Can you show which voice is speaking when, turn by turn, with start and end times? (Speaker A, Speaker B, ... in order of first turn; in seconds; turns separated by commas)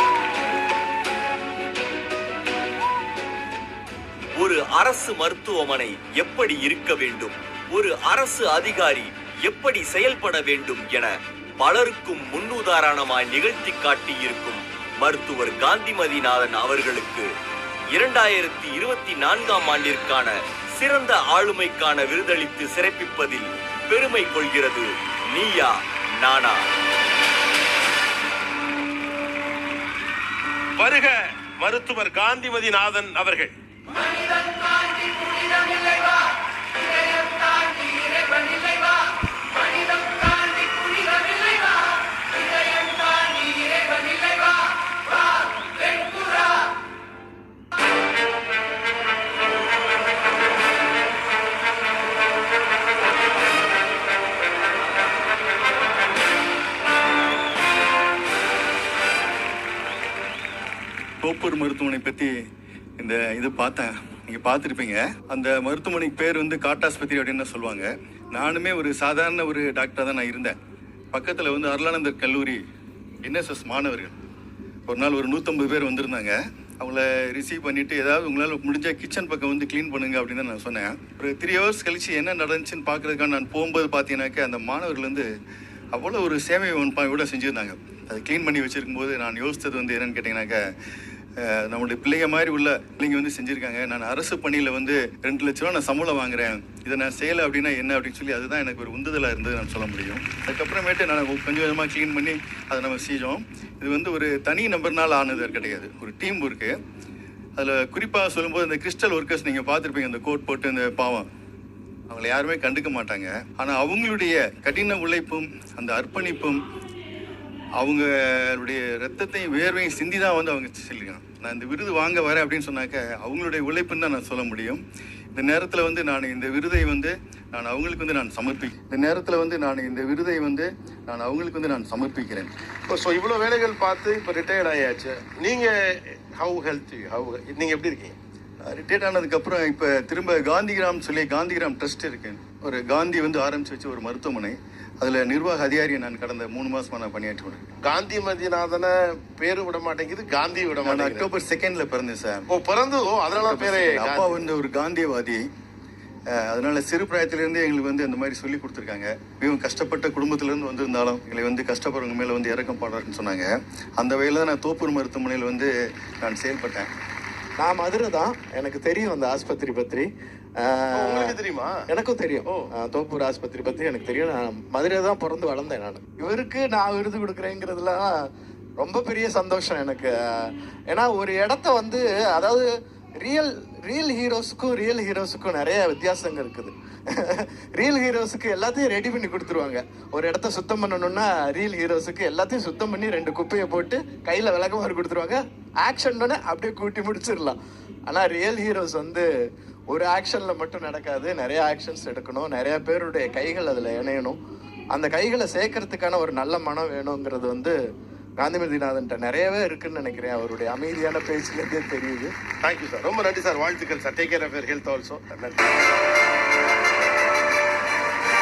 Speaker A: 4.4-17.3, Speaker A: 17.9-26.6, Speaker B: 30.8-33.5, Speaker C: 61.2-62.3, Speaker C: 63.0-70.6, Speaker C: 71.1-72.6, Speaker C: 73.2-74.2, Speaker C: 74.9-85.3, Speaker C: 85.9-90.6, Speaker C: 91.4-106.8, Speaker C: 107.6-111.3, Speaker C: 112.1-116.6, Speaker C: 117.8-124.8, Speaker C: 125.3-132.5, Speaker B: 132.9-138.2, Speaker C: 138.6-147.7, Speaker B: 147.8-151.3, Speaker C: 150.8-152.5, Speaker B: 152.5-154.4, Speaker C: 153.4-155.4, Speaker C: 156.3-165.7, Speaker C: 166.2-166.9, Speaker D: 167.6-170.1, Speaker D: 170.6-171.4, Speaker B: 170.9-171.8, Speaker D: 171.9-178.1, Speaker D: 178.8-182.7, Speaker D: 183.2-197.6, Speaker D: 198.1-199.3, Speaker D: 199.9-204.4, Speaker D: 204.9-207.8, Speaker D: 208.4-212.3, Speaker B: 212.6-215.6